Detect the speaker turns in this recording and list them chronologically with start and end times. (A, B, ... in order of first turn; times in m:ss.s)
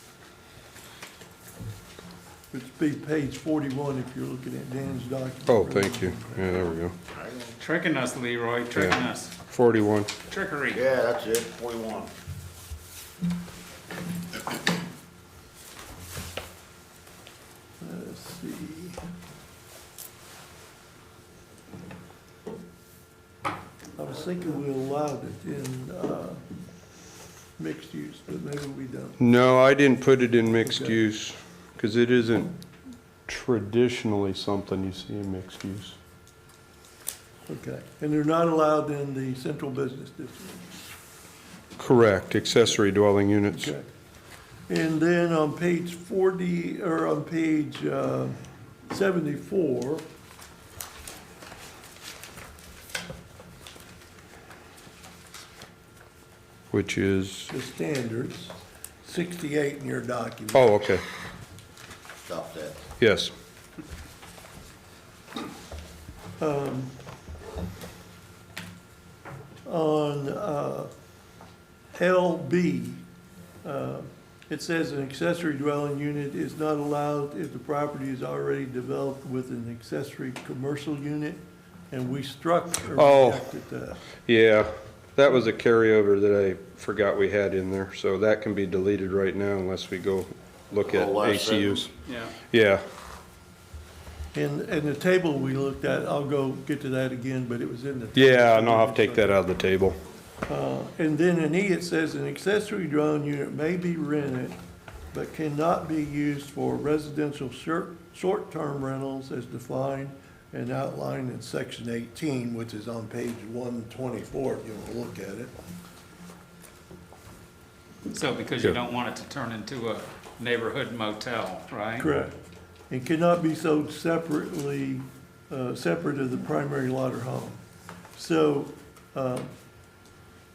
0:02.5-0:06.8 A
0:05.5-0:06.9 B
0:07.1-0:07.5 C
0:07.6-0:09.3 D
0:08.7-0:10.1 B
0:10.3-0:10.8 D
0:10.7-0:12.1 C
0:17.8-0:19.0 A
0:24.0-0:26.4 A
0:27.6-0:29.2 A
0:29.2-0:32.5 B
0:30.6-0:31.0 A
0:33.3-0:36.0 B
0:37.5-0:40.8 A
0:41.8-0:43.7 B
0:43.5-0:43.9 A
0:44.7-0:50.0 A
0:56.7-0:57.5 B
0:57.5-1:00.8 A
1:00.5-1:01.0 B
1:02.2-1:02.8 C
1:03.0-1:03.3 B
1:06.4-1:06.9 A
1:09.7-1:10.9 A
1:12.0-1:13.0 A
1:13.6-1:24.0 A
1:23.0-1:23.4 B
1:24.2-1:31.9 B
1:30.9-1:31.8 C
1:32.1-1:32.3 D
1:32.5-1:32.8 B
1:34.3-1:39.4 A
1:38.2-1:40.0 B
1:40.5-1:44.6 A
1:45.1-1:55.5 A
1:58.1-2:02.1 D
2:02.0-2:02.4 A
2:02.9-2:07.6 A
2:08.2-2:09.5 A